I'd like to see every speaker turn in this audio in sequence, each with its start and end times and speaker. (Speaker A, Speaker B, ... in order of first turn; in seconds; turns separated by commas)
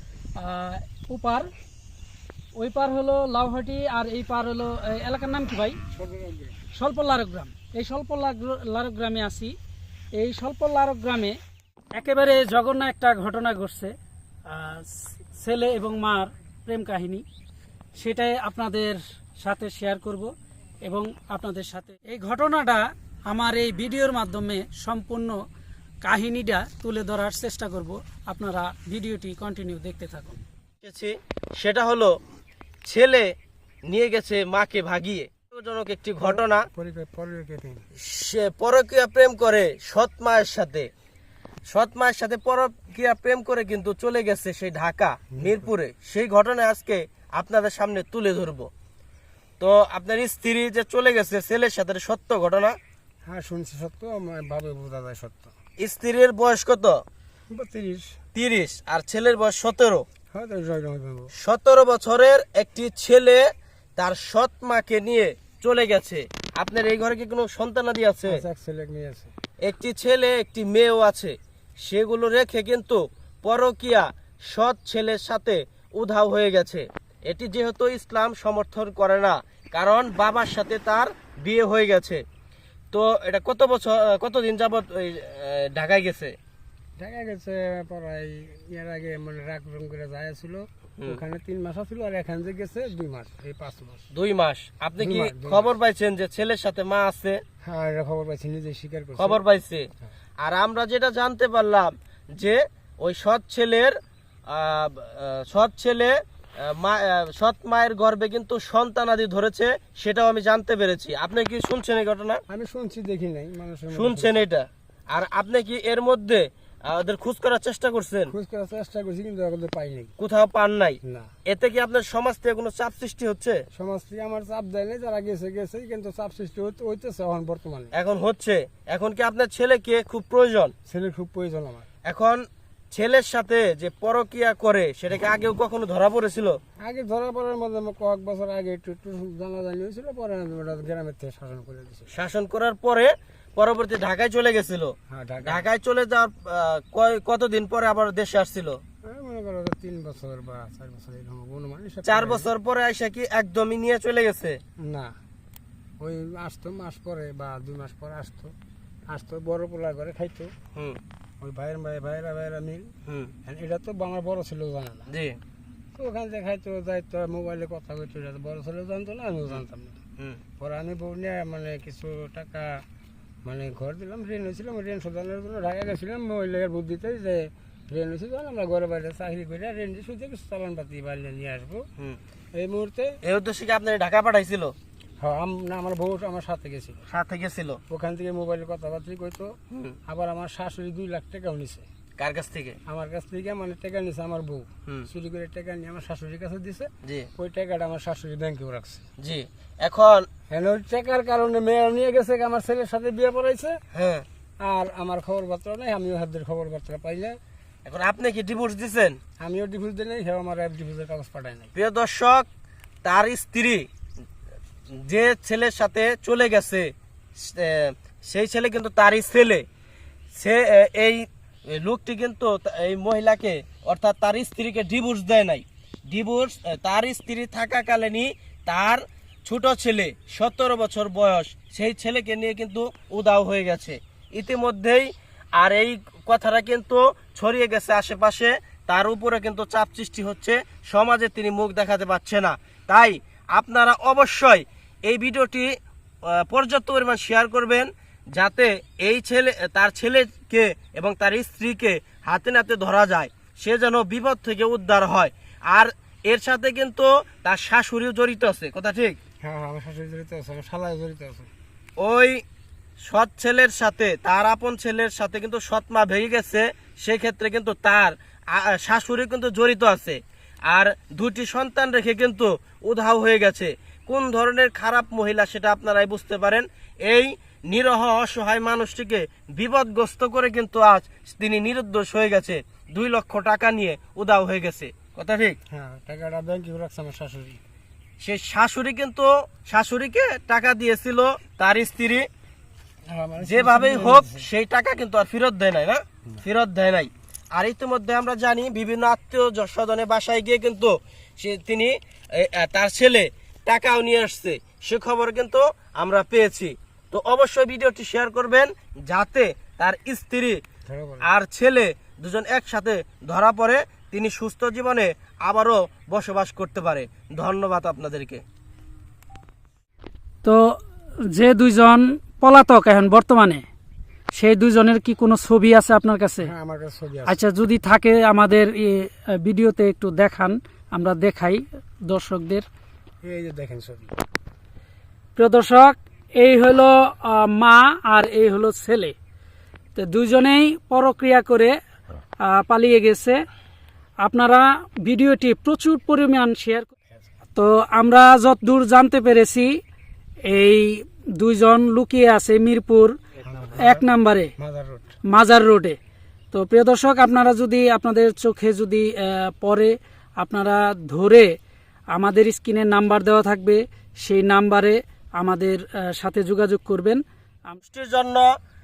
Speaker A: 0.4-1.5, Speaker A: 2.6-5.8, Speaker B: 5.9-6.6, Speaker A: 6.8-9.5, Speaker A: 10.2-11.4, Speaker A: 11.9-13.9, Speaker A: 14.5-17.2, Speaker A: 18.0-20.3, Speaker A: 20.9-25.4, Speaker A: 26.0-30.4, Speaker C: 30.8-32.1, Speaker C: 32.9-33.3, Speaker C: 33.9-36.6, Speaker B: 36.2-37.8, Speaker C: 38.0-40.9, Speaker C: 41.7-48.7, Speaker B: 45.4-45.7, Speaker C: 49.6-52.8, Speaker B: 53.3-55.5, Speaker C: 55.8-57.0, Speaker B: 57.5-58.1, Speaker C: 58.3-60.0, Speaker B: 60.3-61.3, Speaker C: 61.4-63.5, Speaker C: 64.0-68.4, Speaker B: 68.3-69.3, Speaker C: 69.6-82.2, Speaker C: 82.9-86.3, Speaker B: 87.0-94.1, Speaker C: 94.1-97.4, Speaker B: 95.0-95.7, Speaker B: 97.6-99.4, Speaker C: 99.2-99.9, Speaker C: 100.4-104.0, Speaker C: 104.5-112.4, Speaker B: 112.5-114.4, Speaker C: 113.9-118.3, Speaker B: 118.3-120.1, Speaker C: 120.2-123.6, Speaker B: 121.0-121.3, Speaker B: 123.8-127.9, Speaker C: 127.9-130.7, Speaker B: 130.9-131.9, Speaker C: 132.1-136.6, Speaker B: 136.8-142.1, Speaker C: 142.1-148.8, Speaker B: 145.1-145.7, Speaker B: 149.0-152.5, Speaker C: 152.1-154.6, Speaker B: 154.8-155.1, Speaker B: 156.0-158.5, Speaker B: 159.1-160.5, Speaker B: 161.4-162.9, Speaker C: 163.1-163.3, Speaker B: 163.5-165.1, Speaker C: 165.1-165.4, Speaker B: 166.0-170.0, Speaker B: 170.6-172.8, Speaker B: 173.5-181.8, Speaker B: 182.6-183.2, Speaker C: 183.2-184.7, Speaker B: 185.2-187.1, Speaker C: 187.1-187.8, Speaker B: 187.9-189.5, Speaker C: 189.7-190.0, Speaker B: 190.1-191.9, Speaker C: 192.2-192.8, Speaker B: 192.9-199.0, Speaker C: 199.2-200.3, Speaker B: 200.5-203.8, Speaker C: 203.9-204.2, Speaker B: 204.6-207.4, Speaker C: 207.9-209.2, Speaker B: 209.4-211.7, Speaker C: 211.8-212.5, Speaker C: 213.0-213.9, Speaker C: 215.0-219.7, Speaker C: 220.3-245.7, Speaker C: 246.2-259.2, Speaker B: 259.4-261.5, Speaker C: 262.0-262.4, Speaker C: 263.0-285.6, Speaker B: 285.7-287.6, Speaker C: 288.2-292.3, Speaker B: 293.1-294.5, Speaker C: 293.4-310.6, Speaker B: 310.9-311.3, Speaker C: 311.2-318.4, Speaker A: 320.4-320.8, Speaker A: 321.3-323.6, Speaker A: 324.3-326.5, Speaker B: 326.4-327.4, Speaker A: 327.3-332.7, Speaker B: 333.2-334.2, Speaker A: 335.4-339.1, Speaker A: 339.9-341.8, Speaker A: 342.4-343.4, Speaker A: 344.2-346.9, Speaker A: 347.6-349.7, Speaker A: 350.5-353.2, Speaker B: 353.4-354.1, Speaker A: 353.8-354.5, Speaker B: 354.6-355.1, Speaker A: 355.3-356.0, Speaker A: 356.5-361.5, Speaker A: 362.1-367.8, Speaker C: 367.8-368.5